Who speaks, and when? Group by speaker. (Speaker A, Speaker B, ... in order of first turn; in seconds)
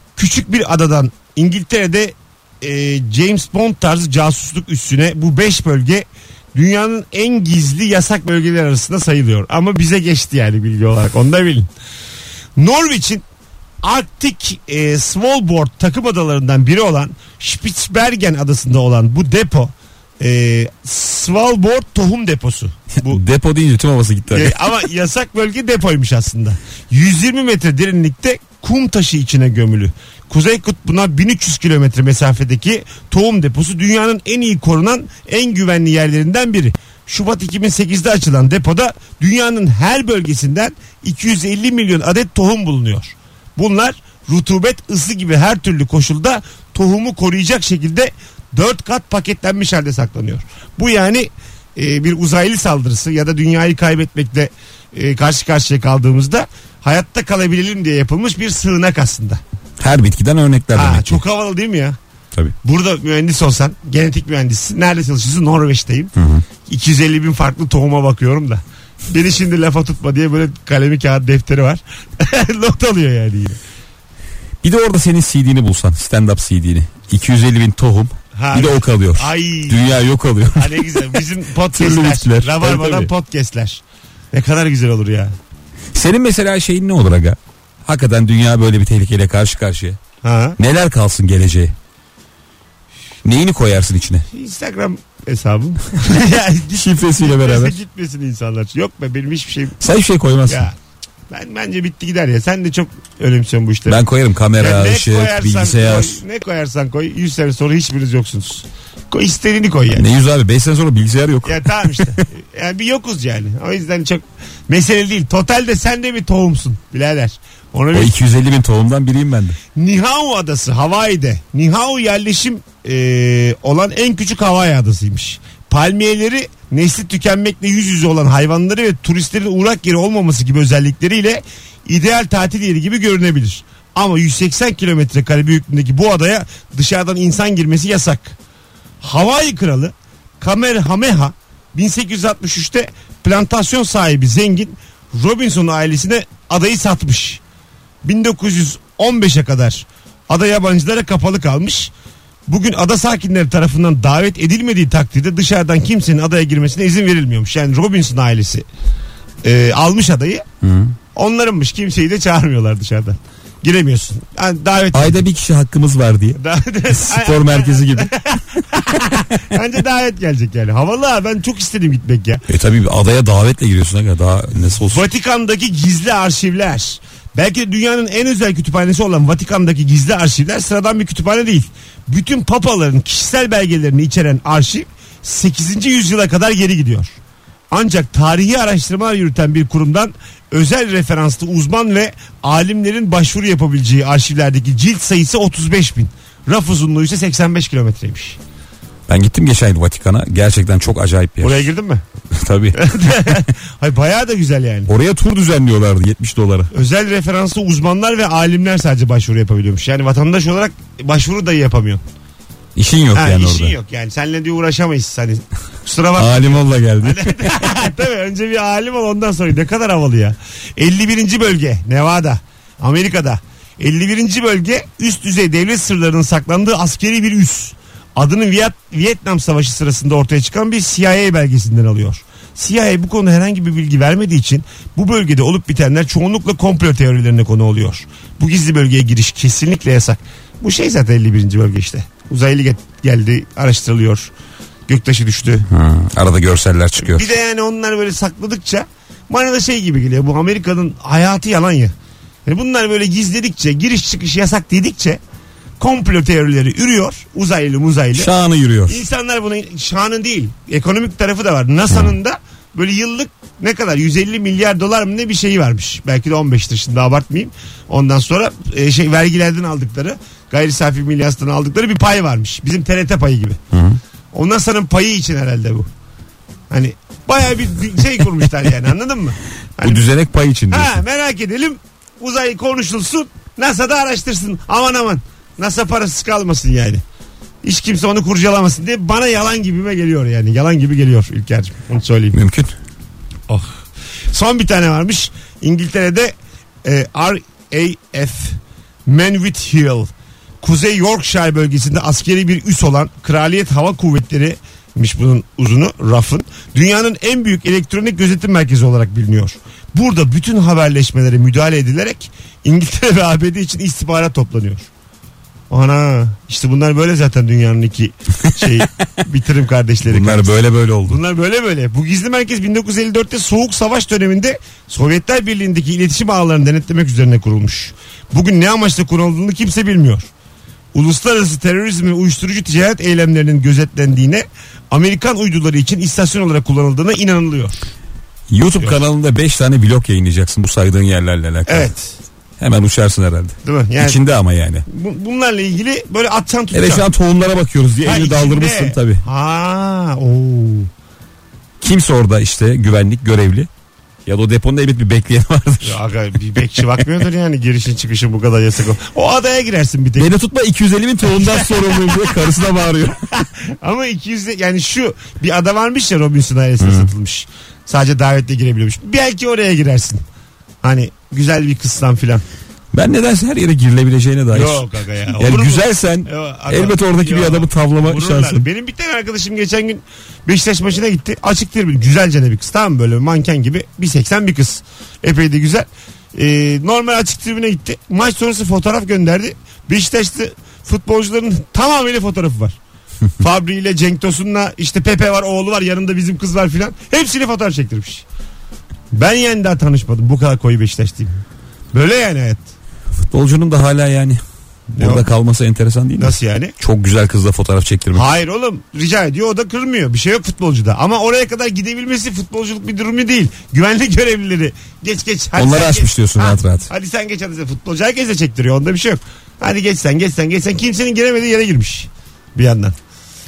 Speaker A: 0.2-11.7, 12.6-13.2, 13.8-23.2, 24.3-59.4, 60.7-62.0, 62.6-66.1, 66.7-73.6, 78.3-80.0, 80.5-85.3, 90.2-90.6, 94.3-99.8, 100.5-100.8, 101.3-104.0, 104.6-110.0, 111.5-118.2, 119.8-138.4, 139.0-147.4, 148.0-151.9, 152.5-158.7, 159.4-160.4, 161.2-165.2, 166.4-172.4, 174.9-187.2, 187.7-198.4, 201.4-202.0, 202.7-204.9, 206.7-212.0, 213.1-244.3, 244.9-245.7, 247.0-251.9, 252.5-255.2, 255.8-258.3, 258.9-273.6, 274.3-275.9, 276.7-280.0, 280.7-287.0, 287.6-292.4, 293.5-296.3, 296.8-300.1, 300.6-314.9, 315.7-320.6, 321.1-330.3, 330.9-337.8, 341.7-342.2, 343.6-344.2, 344.9-347.1, 348.0-350.9, 355.8-360.3, 361.3-362.3, 363.3-370.2, 370.8-372.4, 374.5-392.8, 393.4-398.2, 399.1-401.4, 401.9-402.7, 405.0-405.3, 406.2-406.7, 408.1-423.0
Speaker B: 23.0-24.6, 59.8-61.2, 66.2-66.4, 74.6-81.1, 81.7-83.1, 85.9-90.0, 90.6-91.8, 93.2-94.3, 96.7-97.8, 99.8-100.7, 103.9-106.2, 109.9-112.2, 117.9-119.6, 160.6-160.9, 164.9-168.1, 172.5-175.0, 199.1-201.7, 202.3-203.3, 204.9-206.7, 212.8-213.8, 216.2-217.7, 245.7-247.3, 258.1-259.0, 273.7-274.0, 279.8-281.0, 292.3-292.7, 320.1-321.2, 338.5-341.9, 342.6-344.9, 346.7-349.2, 351.8-353.7, 354.3-356.0, 360.2-363.2, 366.8-367.1, 372.9-374.9, 375.4-378.7, 403.3-404.4, 404.9-408.3, 415.6-416.9